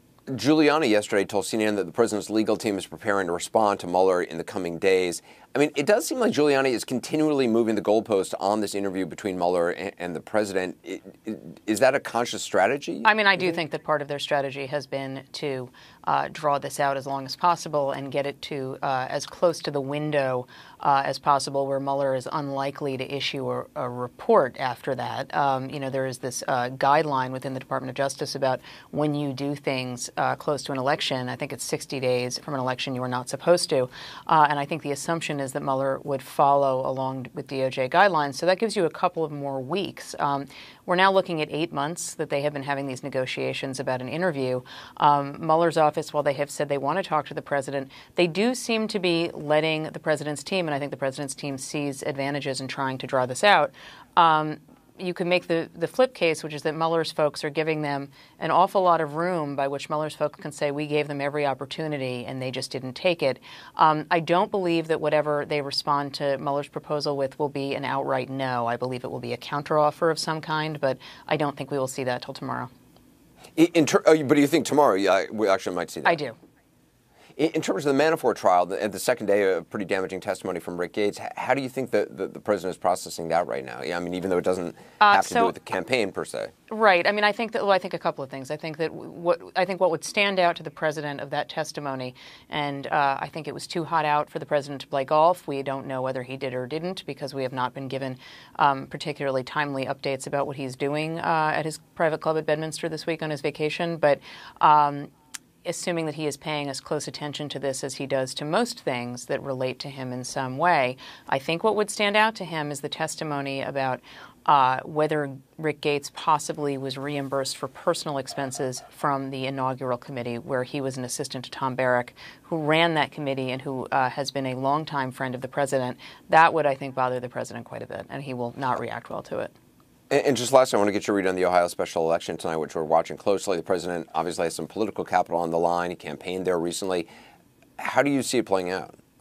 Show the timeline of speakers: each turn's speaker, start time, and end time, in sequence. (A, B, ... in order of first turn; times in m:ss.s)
0:00.3-0:13.1 A
0:13.0-1:12.7 B
1:13.6-1:16.2 A
1:16.0-1:16.4 B
1:17.4-1:26.5 A
1:25.0-1:25.5 B
1:26.7-1:45.1 B
1:45.6-2:09.5 B
2:10.1-2:17.1 A
2:17.8-2:19.0 A